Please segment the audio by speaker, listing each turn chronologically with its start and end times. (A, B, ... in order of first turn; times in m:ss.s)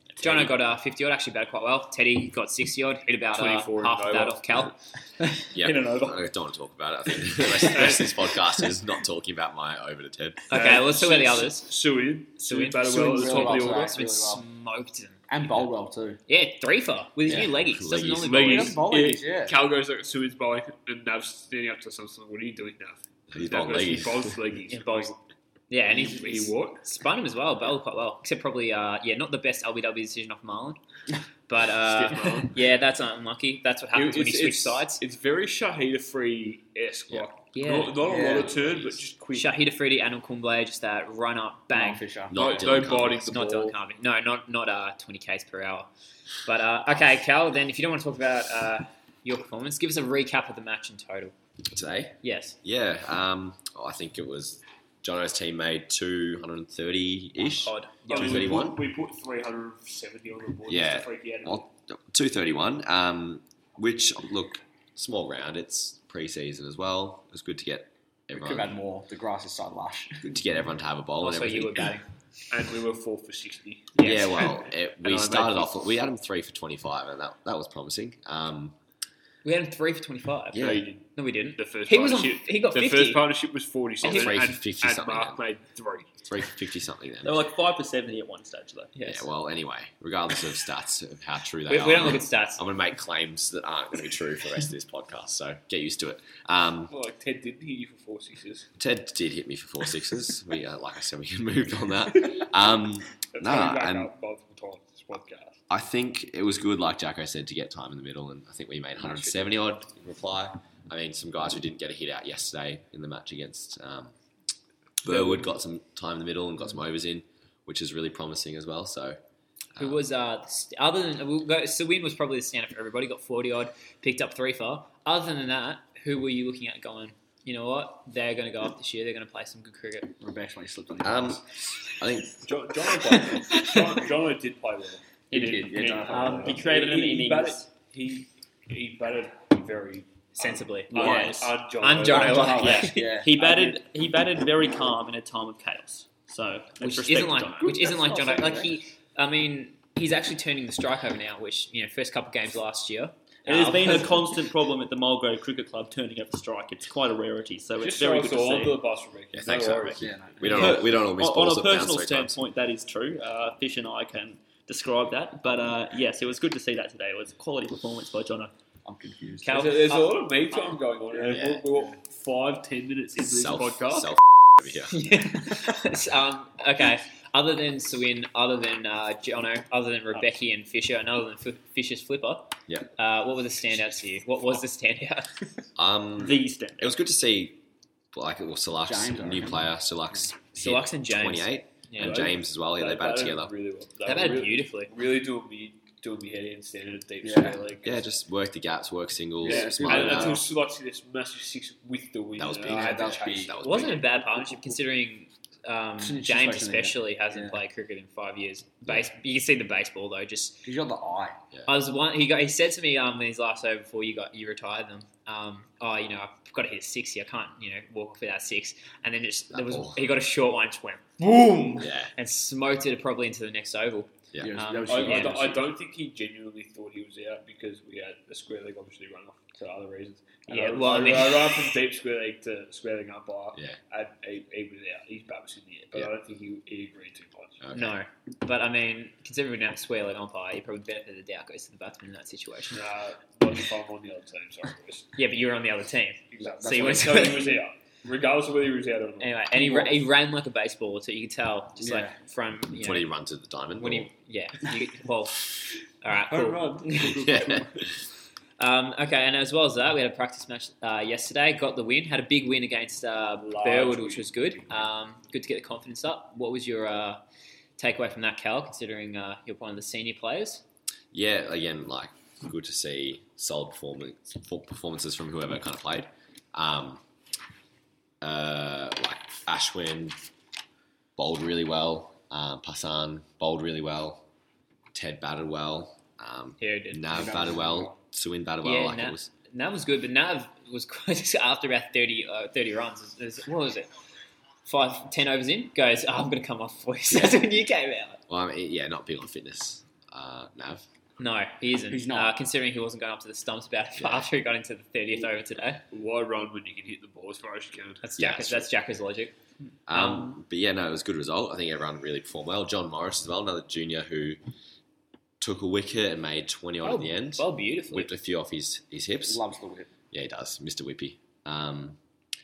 0:00.2-0:05.3 A
0:00.2-0:00.5 B
0:03.4-0:04.6 B
0:05.5-0:10.5 C
0:05.7-0:06.2 D
0:07.6-0:08.2 B
0:10.5-0:11.7 A
0:10.5-0:14.0 B
0:12.4-0:15.7 A
0:12.9-0:14.4 E
0:15.3-0:16.2 E
0:16.3-0:18.8 A
0:17.3-0:18.5 C
0:18.2-0:25.2 B
0:18.5-0:19.6 E
0:23.3-0:24.4 C
0:24.7-0:25.2 A
0:25.7-0:30.8 A
0:25.9-0:26.9 B
0:31.5-0:35.0 A
0:31.8-0:32.6 B
0:33.9-0:39.6 B
0:37.5-0:38.0 A
0:38.0-0:38.6 E
0:38.7-0:39.0 C
0:39.3-0:42.0 A
0:41.7-0:42.7 E
0:42.3-0:43.3 C
0:42.3-0:43.8 B
0:43.3-0:45.9 A
0:46.4-0:51.3 A
0:51.7-0:58.8 C
0:52.2-0:52.6 A
0:57.6-0:58.6 A
0:58.1-1:01.7 B
1:00.7-1:08.8 C
1:08.3-1:10.3 E
1:10.2-1:12.0 C
1:11.2-1:12.1 A
1:12.5-1:15.7 B
1:14.0-1:14.5 A
1:14.0-1:18.8 C
1:19.4-1:23.3 A
1:20.5-1:20.9 C
1:20.5-1:26.2 B
1:24.0-1:24.3 A
1:24.0-1:25.4 C
1:26.2-1:27.4 C
1:27.2-1:28.9 D
1:29.0-1:29.3 A
1:29.0-1:36.9 C
1:31.7-1:32.6 A
1:36.9-1:38.7 B
1:38.8-1:44.1 C
1:43.3-1:45.6 B
1:45.7-1:54.2 C
1:55.0-1:59.2 C
1:55.1-1:55.4 B
1:59.8-2:00.0 C
1:59.8-2:10.1 A
2:10.2-2:11.4 E
2:11.0-2:12.4 C
2:12.4-2:22.8 B
2:13.0-2:13.9 A
2:15.3-2:16.6 E
2:16.1-2:17.7 D
2:20.4-2:22.9 A
2:20.9-2:21.5 D
2:21.0-2:21.4 E
2:22.0-2:23.8 E
2:22.6-2:27.8 D
2:26.8-2:34.2 A
2:27.6-2:28.7 E
2:33.5-2:38.8 D
2:37.8-2:40.1 B
2:39.3-2:42.4 C
2:40.0-2:40.9 E
2:40.4-2:48.5 D
2:48.8-2:49.8 E
2:49.4-2:50.6 A
2:49.5-2:54.2 B
2:51.3-2:51.9 E
2:51.3-2:51.7 C
2:53.2-2:55.1 C
2:54.9-3:05.3 A
3:05.8-3:07.6 C
3:06.2-3:06.9 D
3:08.1-3:13.5 C
3:08.9-3:09.7 E
3:10.6-3:12.3 A
3:12.0-3:18.1 B
3:14.0-3:14.9 A
3:17.2-3:17.7 E
3:17.8-3:20.4 C
3:19.4-3:20.5 E
3:19.4-3:24.8 B
3:22.4-3:24.1 C
3:22.6-3:23.5 E
3:23.6-3:30.7 A
3:26.0-3:27.6 E
3:30.6-3:31.4 E
3:31.7-3:45.4 A
3:39.5-3:40.1 C
3:41.8-3:42.1 C
3:44.3-3:44.6 C
3:44.4-3:45.7 E
3:44.9-3:57.6 B
3:50.5-3:51.8 A
3:57.6-3:58.0 C
3:57.7-4:02.8 A
4:02.7-4:05.1 B
4:05.2-4:07.6 A
4:06.3-4:10.0 B
4:06.4-4:07.5 E
4:09.2-4:13.1 A
4:11.8-4:12.2 E
4:12.8-4:14.1 C
4:13.8-4:17.2 A
4:16.3-4:17.9 B
4:17.1-4:17.9 C
4:18.6-4:27.2 A
4:23.4-4:24.8 B
4:27.8-4:30.6 A
4:31.1-4:37.0 C
4:38.2-4:40.2 C
4:41.2-4:44.2 C
4:44.9-4:49.3 C
4:46.6-4:47.0 A
4:47.1-4:48.0 E
4:48.6-4:53.9 A
4:54.7-4:58.2 A
4:57.1-4:57.4 C
4:58.3-5:00.8 C
5:01.2-5:05.8 A
5:01.9-5:02.3 E
5:04.0-5:04.3 C
5:05.9-5:08.0 B
5:08.0-5:09.3 A
5:08.2-5:08.7 C
5:09.9-5:14.4 C
5:09.9-5:10.3 A
5:15.4-5:19.4 C
5:16.8-5:18.1 A
5:19.2-5:19.9 E
5:20.1-5:22.0 C